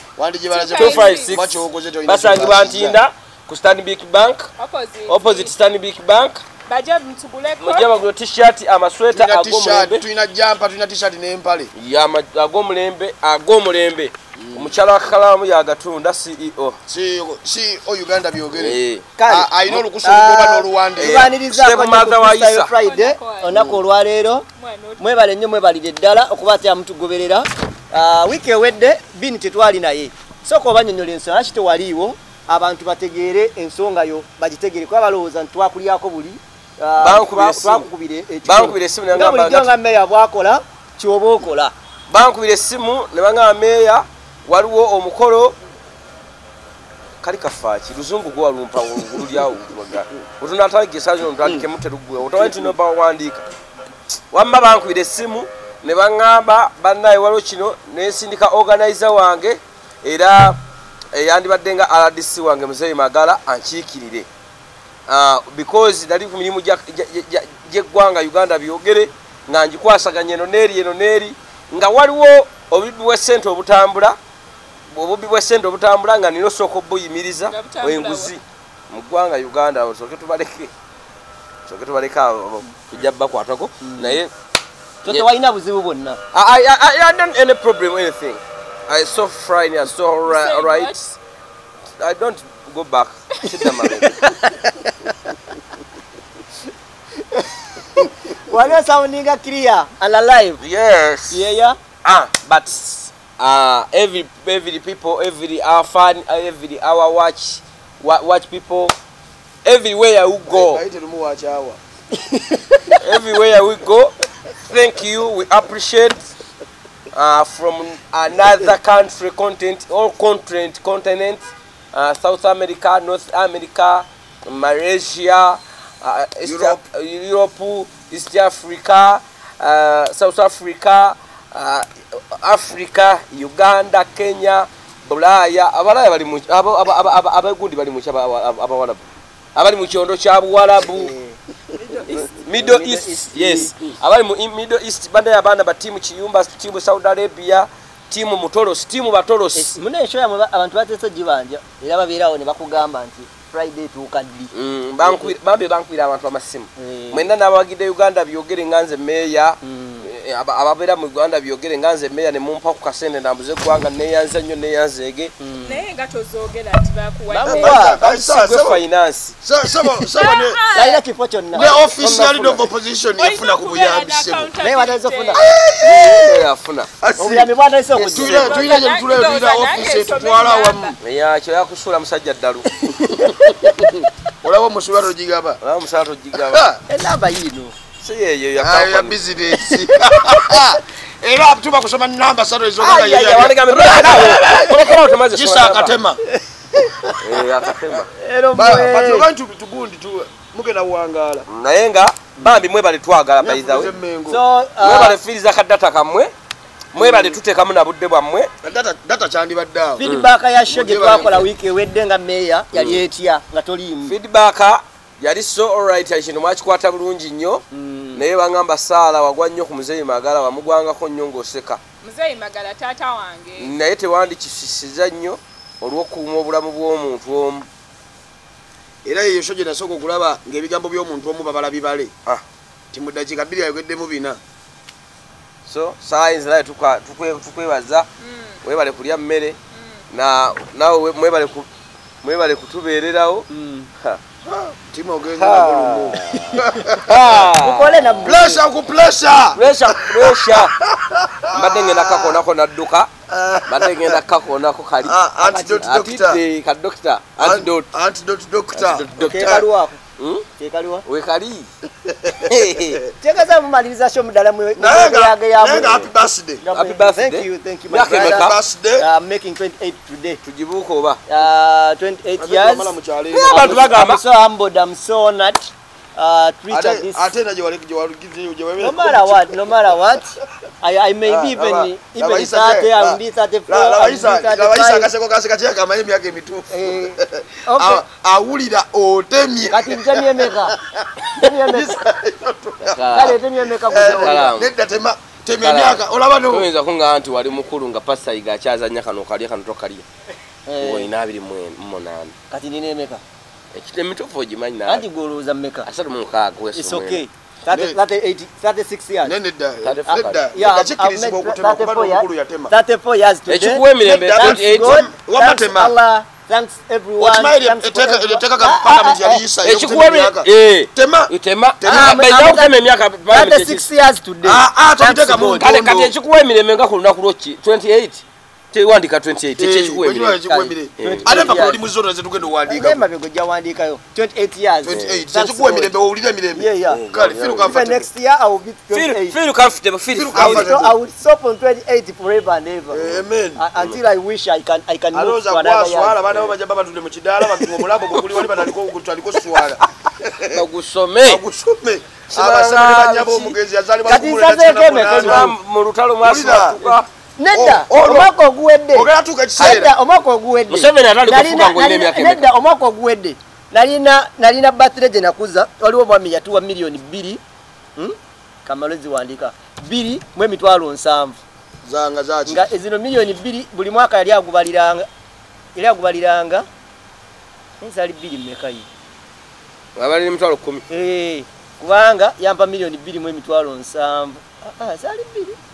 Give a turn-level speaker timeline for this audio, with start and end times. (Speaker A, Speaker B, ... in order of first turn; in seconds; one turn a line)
Speaker A: 0.2-3.0
Speaker B: 0.5-1.3
Speaker C: 0.7-4.5
Speaker B: 4.6-5.5
Speaker C: 5.1-6.4
Speaker B: 6.7-7.9
Speaker C: 7.6-10.0
Speaker A: 9.1-11.7
Speaker C: 11.8-16.8
Speaker A: 14.4-14.8
Speaker A: 16.9-21.3
Speaker C: 18.6-19.1
Speaker D: 19.2-24.5
Speaker C: 21.0-22.7
Speaker B: 22.8-23.6
Speaker A: 23.5-23.8
Speaker B: 24.6-25.1
Speaker D: 25.0-41.7
Speaker C: 37.0-37.9
Speaker C: 38.5-39.7
Speaker C: 42.1-45.6
Speaker C: 47.2-53.4
Speaker C: 54.3-60.6
Speaker C: 61.1-64.3
Speaker C: 65.1-74.2
Speaker C: 74.9-80.7
Speaker B: 77.5-78.3
Speaker C: 81.7-84.3
Speaker D: 83.8-84.2
Speaker D: 85.0-86.2
Speaker C: 86.3-90.9
Speaker B: 90.3-91.2
Speaker C: 92.0-94.2
Speaker D: 94.0-94.9
Speaker D: 98.3-100.6
Speaker C: 100.6-101.5
Speaker D: 101.3-101.8
Speaker C: 102.0-109.0
Speaker C: 109.7-110.8
Speaker A: 110.5-111.8
Speaker D: 112.3-113.0
Speaker C: 113.0-114.1
Speaker C: 114.7-116.3
Speaker C: 117.1-141.1
Speaker A: 126.4-126.8
Speaker D: 140.9-143.8
Speaker C: 142.1-149.8
Speaker D: 149.6-155.3
Speaker C: 154.5-165.3
Speaker D: 156.8-157.3
Speaker D: 159.6-160.1
Speaker D: 165.4-165.8
Speaker B: 165.6-167.8
Speaker A: 167.4-168.8
Speaker D: 167.4-168.0
Speaker C: 168.0-169.3
Speaker A: 169.4-170.6
Speaker B: 170.1-171.0
Speaker D: 170.7-171.7
Speaker A: 171.5-174.5
Speaker C: 171.6-172.7
Speaker B: 173.2-175.4
Speaker D: 174.6-175.4
Speaker A: 175.3-176.5
Speaker C: 175.8-176.9
Speaker A: 177.0-181.0
Speaker D: 177.2-178.6
Speaker B: 178.2-181.0
Speaker C: 181.0-183.0
Speaker A: 183.3-185.6
Speaker C: 185.6-186.6
Speaker A: 186.4-186.8
Speaker D: 186.9-187.7
Speaker C: 188.0-189.2
Speaker A: 188.6-196.2
Speaker C: 192.8-195.9
Speaker D: 196.3-197.1
Speaker C: 197.2-198.1
Speaker D: 198.2-199.3
Speaker A: 198.6-201.5
Speaker C: 201.5-203.9
Speaker A: 203.4-204.4
Speaker D: 204.3-205.2
Speaker C: 204.8-206.3
Speaker C: 206.9-208.5
Speaker A: 207.0-207.3
Speaker A: 208.6-210.1
Speaker D: 210.0-214.1
Speaker A: 210.7-211.5
Speaker C: 212.7-213.0
Speaker C: 214.1-217.6
Speaker D: 217.7-218.2
Speaker C: 218.1-221.8
Speaker B: 222.0-223.7
Speaker C: 223.6-227.7
Speaker A: 229.0-232.1
Speaker A: 232.9-234.4
Speaker C: 235.7-238.1
Speaker B: 238.2-238.6
Speaker C: 238.6-239.6
Speaker B: 239.7-240.0
Speaker C: 240.1-241.7
Speaker C: 242.2-243.5
Speaker D: 243.5-243.9
Speaker A: 244.5-247.4
Speaker C: 245.4-248.4
Speaker D: 247.6-248.6
Speaker A: 248.2-252.4
Speaker C: 249.6-250.8
Speaker C: 251.5-253.1
Speaker A: 253.3-254.2
Speaker C: 253.7-257.9
Speaker A: 255.0-256.4
Speaker A: 257.4-259.7
Speaker C: 258.7-259.6
Speaker D: 259.2-260.0
Speaker C: 260.2-260.5
Speaker D: 260.6-261.0
Speaker C: 261.1-261.7
Speaker A: 262.1-262.5
Speaker C: 262.5-263.0
Speaker D: 263.2-266.1
Speaker A: 264.8-266.6
Speaker D: 266.6-270.4
Speaker C: 266.7-268.6
Speaker A: 268.2-269.1
Speaker C: 270.4-271.2
Speaker D: 271.3-273.0
Speaker A: 272.4-274.0
Speaker C: 273.3-274.2
Speaker D: 273.5-277.3
Speaker A: 276.7-279.8
Speaker D: 278.8-285.1
Speaker A: 281.3-293.0
Speaker D: 286.7-288.0
Speaker D: 289.7-290.8
Speaker D: 291.4-292.0
Speaker C: 292.9-293.4
Speaker D: 293.1-294.5
Speaker A: 293.9-296.7
Speaker C: 294.2-294.7
Speaker C: 295.6-300.1
Speaker D: 300.7-301.1
Speaker C: 300.8-302.3
Speaker D: 302.5-303.2
Speaker C: 303.7-305.1
Speaker D: 304.9-305.9
Speaker C: 305.9-307.2
Speaker D: 306.8-309.3
Speaker A: 307.7-308.0
Speaker A: 309.2-312.7
Speaker C: 309.8-310.4
Speaker D: 310.1-319.4
Speaker C: 313.5-315.0
Speaker A: 314.0-315.9
Speaker A: 317.2-322.3
Speaker C: 319.6-323.9
Speaker D: 321.9-322.7
Speaker D: 323.3-325.7
Speaker A: 324.4-326.1
Speaker C: 325.6-328.2
Speaker C: 328.7-330.4
Speaker A: 329.6-333.0
Speaker D: 330.5-331.8
Speaker C: 331.0-331.5
Speaker D: 332.7-335.9
Speaker A: 334.8-338.1
Speaker C: 334.9-335.2
Speaker D: 336.6-337.0
Speaker C: 336.9-337.7
Speaker D: 337.7-339.4
Speaker C: 338.9-340.8
Speaker A: 340.1-340.9
Speaker D: 340.3-346.2
Speaker A: 342.9-343.6
Speaker A: 345.1-350.6
Speaker C: 348.2-348.5
Speaker C: 350.5-351.4
Speaker A: 351.2-355.6
Speaker C: 352.3-353.6
Speaker D: 354.1-355.5
Speaker C: 355.1-357.1
Speaker A: 356.2-357.0
Speaker D: 357.4-367.4
Speaker A: 357.5-358.3
Speaker A: 358.9-359.9
Speaker C: 360.7-362.5
Speaker D: 368.0-371.4
Speaker A: 371.9-372.6
Speaker D: 372.5-375.1
Speaker D: 375.8-376.7
Speaker D: 377.8-378.9
Speaker C: 380.0-380.8
Speaker D: 380.9-385.6